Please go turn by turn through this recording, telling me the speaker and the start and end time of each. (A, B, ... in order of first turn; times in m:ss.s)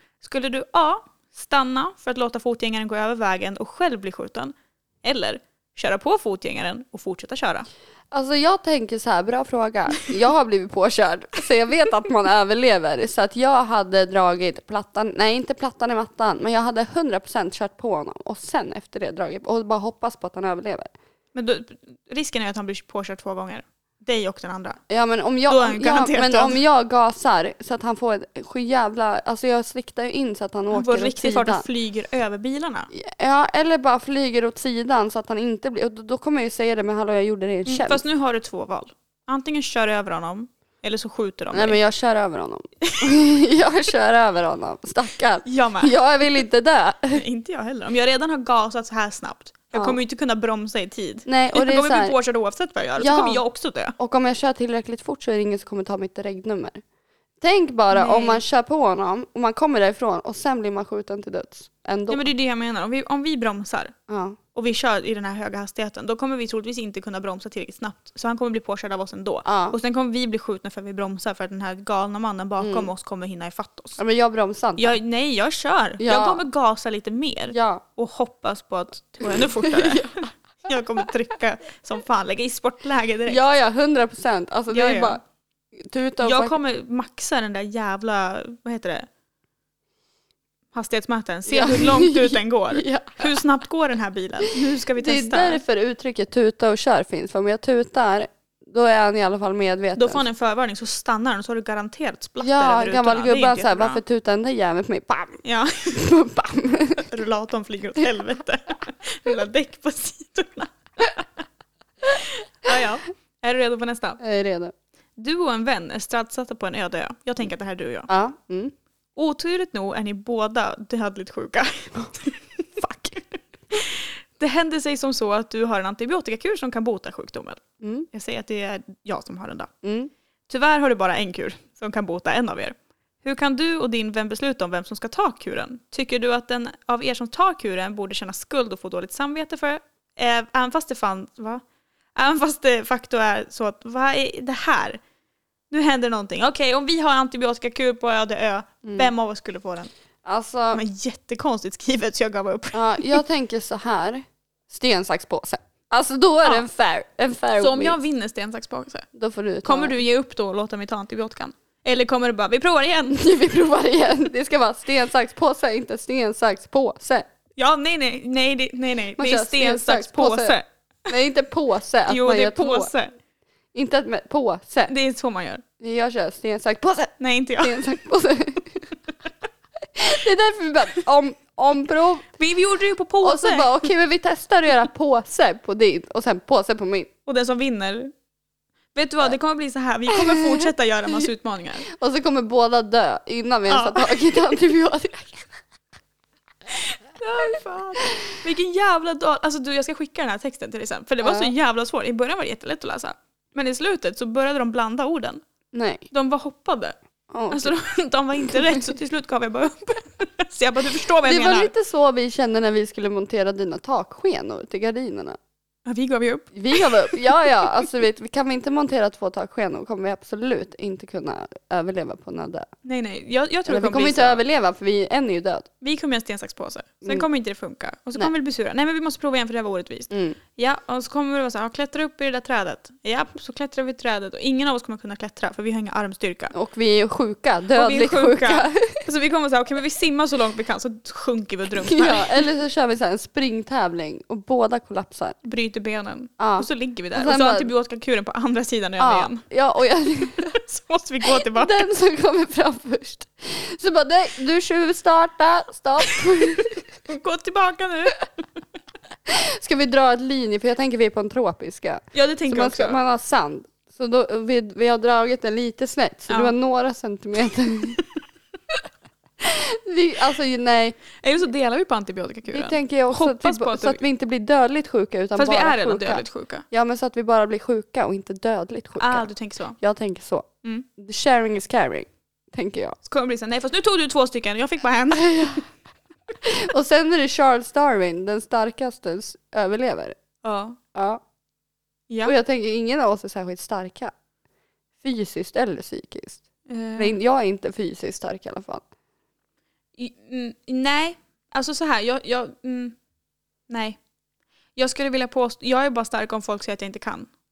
0:00.2-0:07.7 A
0:08.1-0:20.9 B
0:21.3-0:24.8 A
0:24.9-0:31.6 B
0:25.5-0:26.6 A
0:30.7-0:32.9 A
0:32.9-0:38.0 B
0:37.7-0:41.8 A
0:41.5-0:47.2 B
0:42.8-0:43.1 A
0:45.4-0:46.0 A
0:47.1-0:54.0 A
0:51.3-0:52.2 B
0:53.0-0:53.4 B
0:54.0-0:56.8 B
0:57.4-1:02.3 B
0:57.9-0:58.4 A
1:02.1-1:03.9 A
1:04.1-1:04.4 B
1:04.5-1:14.0 A
1:09.4-1:09.8 B
1:12.6-1:12.9 B
1:14.0-1:15.0 B
1:14.8-1:23.4 A
1:16.0-1:16.4 B
1:17.5-1:17.8 B
1:19.6-1:20.2 B
1:23.3-1:25.2 B
1:24.7-1:25.2 A
1:25.8-1:26.6 B
1:26.2-1:29.1 A
1:30.7-1:35.6 A
1:31.5-1:33.3 B
1:35.0-1:40.2 B
1:40.0-1:44.0 A
1:42.4-1:47.1 B
1:45.4-1:46.0 A
1:47.0-1:51.4 A
1:52.0-1:54.2 A
1:54.2-1:54.7 B
1:55.2-1:58.1 A
1:58.1-1:58.7 B
1:59.2-2:02.6 A
2:02.8-2:03.2 B
2:03.7-2:07.6 A
2:07.8-2:08.1 B
2:08.1-2:09.7 A
2:09.8-2:10.1 B
2:10.5-2:21.6 A
2:22.2-2:25.0 A
2:25.7-2:29.9 A
2:28.8-2:29.1 B
2:30.2-2:30.8 B
2:30.7-2:33.2 A
2:32.7-2:38.0 B
2:37.6-2:39.1 A
2:39.2-2:39.9 B
2:39.6-2:43.3 A
2:43.1-2:47.2 B
2:47.6-2:50.7 A
2:49.2-2:50.6 B
2:51.1-2:52.9 B
2:52.1-2:53.1 A
2:53.7-2:54.9 B
2:54.9-2:55.6 A
2:55.8-2:58.9 B
2:57.2-2:57.9 A
2:59.9-3:02.3 B
3:02.4-3:03.9 A
3:03.2-3:07.1 B
3:07.3-3:08.1 A
3:09.0-3:11.9 A
3:10.1-3:10.7 B
3:11.9-3:15.5 B
3:13.7-3:14.4 A
3:16.7-3:25.4 A
3:21.2-3:21.5 B
3:25.7-3:26.1 B
3:26.1-3:27.0 A
3:27.3-3:27.8 B
3:27.5-3:31.7 A
3:31.2-3:35.4 B
3:35.9-3:37.3 A
3:36.6-3:42.7 B
3:42.8-3:44.4 A
3:43.7-3:45.7 B
3:45.8-3:56.5 A
3:50.1-3:50.4 B
3:56.5-3:59.0 B
3:57.8-4:02.4 A
4:01.8-4:05.4 B
4:05.4-4:09.4 A
4:06.4-4:07.7 B
4:09.0-4:10.6 B
4:10.4-4:11.9 A
4:11.4-4:16.8 B
4:17.1-4:18.3 A
4:19.3-4:28.0 B
4:22.1-4:23.0 A
4:26.3-4:26.5 A
4:29.4-4:31.0 B
4:31.2-4:34.0 A
4:32.5-4:39.3 B
4:35.4-4:36.6 A
4:39.0-4:39.8 A
4:39.8-4:43.0 B
4:43.0-4:45.6 A
4:45.2-4:45.6 B
4:46.4-4:50.2 B
4:50.4-4:50.8 A
4:50.9-4:51.2 B
4:52.2-4:54.1 B
4:55.0-4:56.4 B
4:56.7-4:57.2 A
4:57.0-4:58.8 B
5:00.0-5:03.0 A
5:03.7-5:04.0 A
5:04.8-5:07.3 A